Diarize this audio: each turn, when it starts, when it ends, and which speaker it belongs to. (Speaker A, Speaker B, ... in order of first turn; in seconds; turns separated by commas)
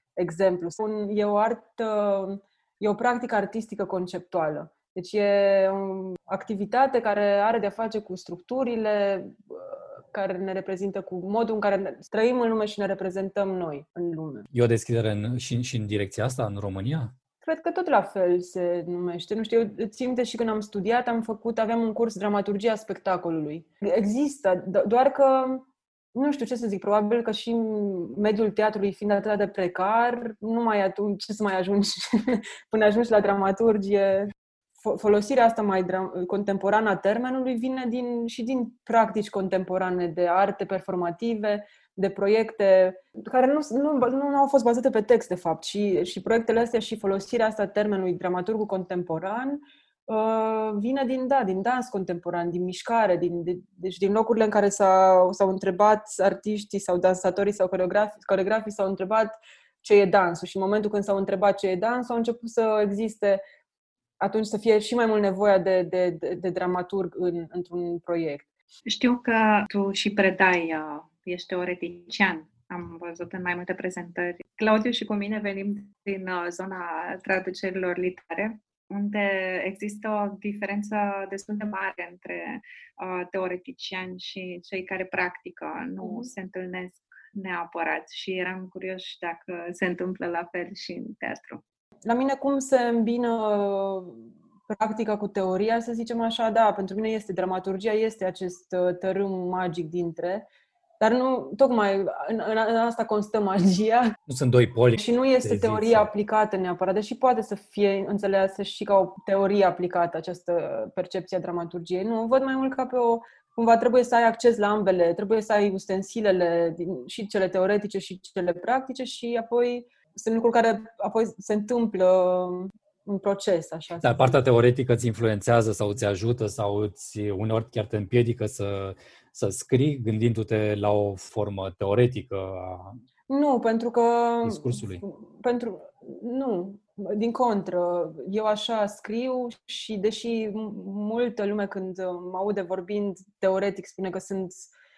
Speaker A: 0.2-14.5, Speaker B: 14.5-17.1, Speaker A: 17.4-63.4, Speaker A: 64.2-68.5, Speaker C: 68.9-91.6, Speaker A: 86.0-86.3, Speaker A: 92.0-100.5, Speaker A: 101.0-104.2, Speaker B: 104.3-106.1, Speaker A: 105.0-124.4, Speaker B: 124.0-133.0, Speaker A: 133.3-144.7, Speaker B: 134.4-135.0